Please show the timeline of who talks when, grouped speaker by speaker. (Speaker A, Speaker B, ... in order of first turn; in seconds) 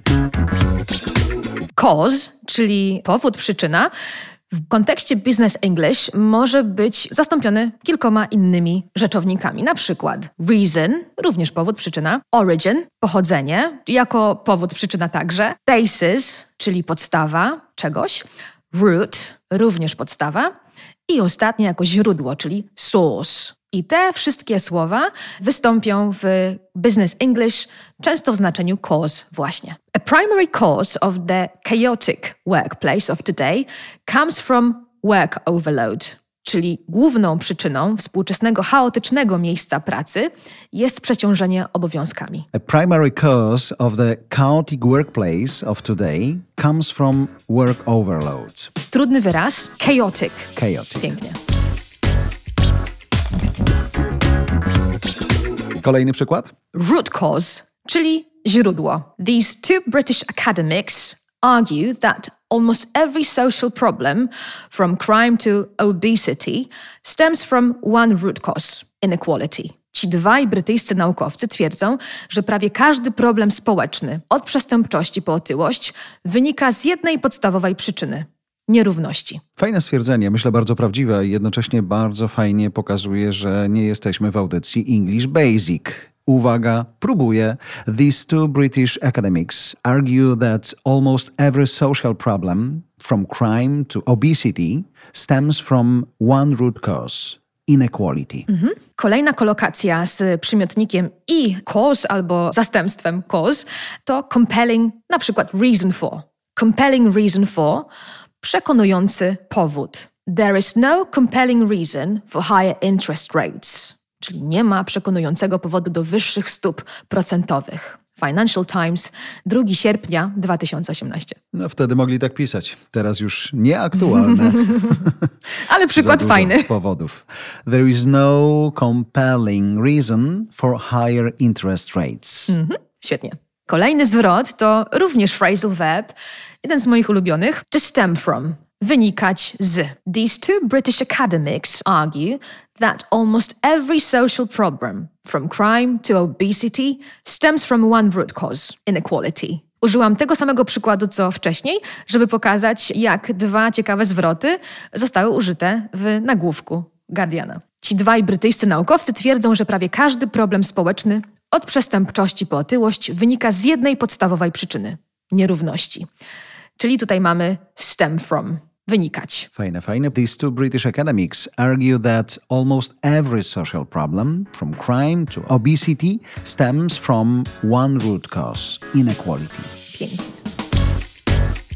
Speaker A: 1.8-3.9, 4.5-20.5, 21.1-42.5, 48.9-51.4, 56.7-79.4, 98.5-107.9, 108.4-121.4, 124.5-125.0, 125.6-126.7, 132.5-166.1, 166.8-169.5, 179.9-180.4
Speaker B: 42.5-48.7, 50.6-51.1, 55.8-56.5, 79.6-98.5, 121.5-125.3, 125.9-132.6, 169.6-179.7